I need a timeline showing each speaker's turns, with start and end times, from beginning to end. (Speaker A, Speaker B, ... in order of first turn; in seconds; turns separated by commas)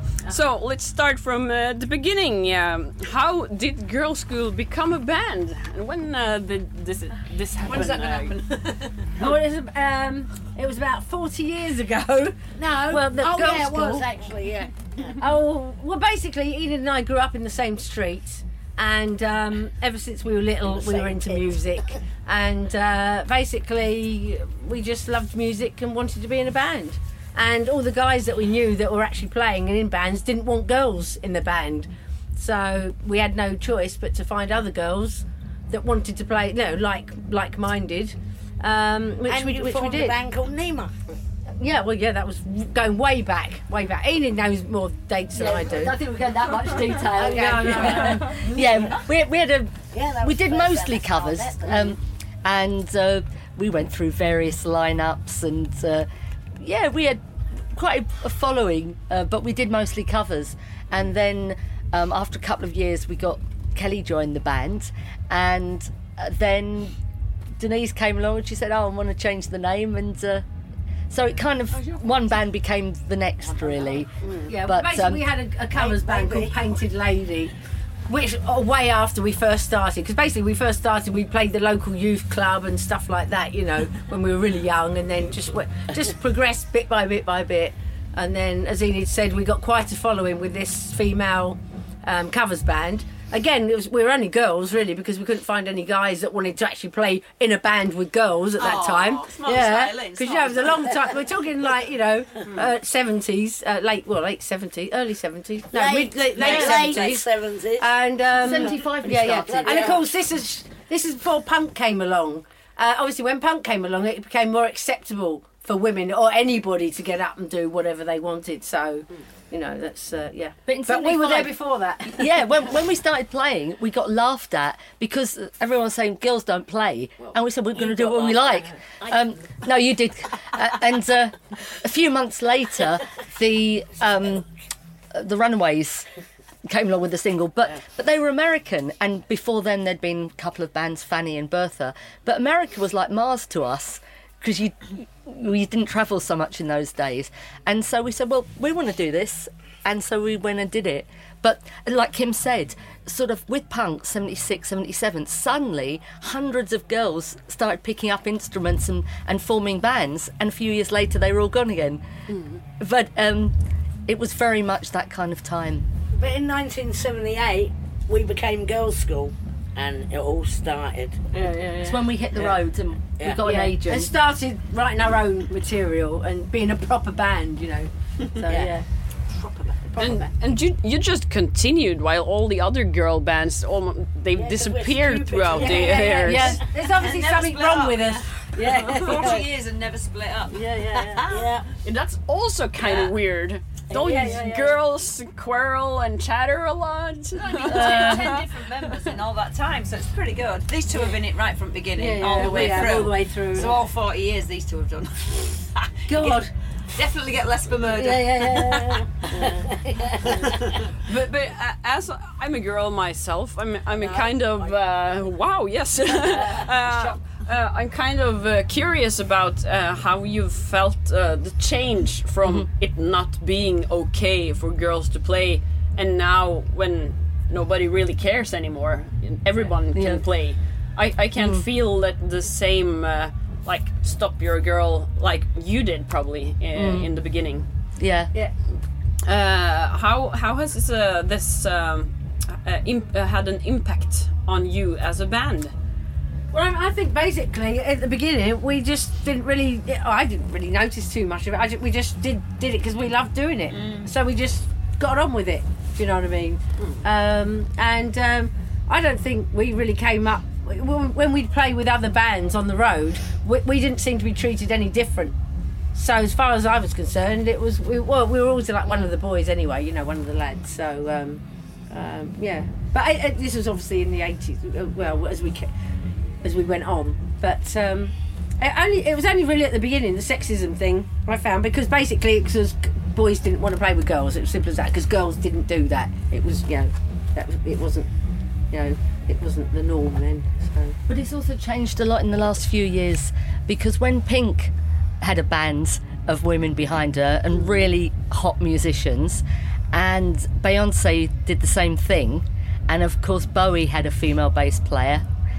Speaker A: 0.3-8.3, Speaker B: 7.6-9.1, Speaker C: 9.2-14.1, Speaker D: 12.6-15.2, Speaker C: 15.1-40.2, Speaker D: 20.6-21.6, Speaker D: 39.3-41.0, Speaker C: 41.6-46.0, Speaker E: 45.3-56.1, Speaker D: 47.1-48.9, Speaker C: 47.1-48.6, Speaker D: 49.9-51.9, Speaker E: 56.6-57.2, Speaker E: 57.7-66.9, Speaker E: 67.6-70.4, Speaker E: 71.1-75.3, Speaker C: 74.4-77.5, Speaker D: 75.7-76.6, Speaker C: 78.1-122.3, Speaker B: 98.6-101.1, Speaker D: 105.7-107.9, Speaker B: 106.3-107.1, Speaker E: 108.4-110.0, Speaker D: 109.3-110.0, Speaker E: 120.7-121.5, Speaker E: 122.1-134.5, Speaker B: 127.9-128.5, Speaker E: 135.1-136.1, Speaker E: 136.7-162.0, Speaker E: 162.8-163.6, Speaker E: 164.1-165.9, Speaker D: 166.1-171.2, Speaker C: 171.3-172.1, Speaker E: 171.8-174.1, Speaker D: 173.2-173.5, Speaker C: 173.3-178.9, Speaker C: 179.7-180.3, Speaker A: 180.0-186.6, Speaker D: 184.3-186.6, Speaker C: 185.5-189.5, Speaker E: 186.2-186.6, Speaker B: 186.8-191.5, Speaker D: 188.9-189.4, Speaker C: 190.5-191.3, Speaker D: 191.2-191.7, Speaker A: 191.8-198.5, Speaker B: 192.8-193.1, Speaker D: 193.9-194.3, Speaker C: 193.9-194.8, Speaker B: 197.4-206.4, Speaker E: 197.7-198.3, Speaker C: 202.0-203.8, Speaker A: 202.4-202.8, Speaker C: 206.1-206.5, Speaker B: 206.9-209.0, Speaker C: 207.9-210.6, Speaker D: 209.5-210.8, Speaker B: 210.3-210.7, Speaker A: 211.1-237.7, Speaker D: 214.0-214.8, Speaker D: 216.2-216.7, Speaker E: 229.9-230.2, Speaker E: 231.3-231.7, Speaker E: 236.8-237.1, Speaker E: 238.0-238.3, Speaker A: 239.2-245.7, Speaker C: 246.5-265.3, Speaker B: 253.7-254.1, Speaker C: 265.9-275.7, Speaker C: 276.4-288.1, Speaker C: 288.7-290.9, Speaker E: 291.1-305.2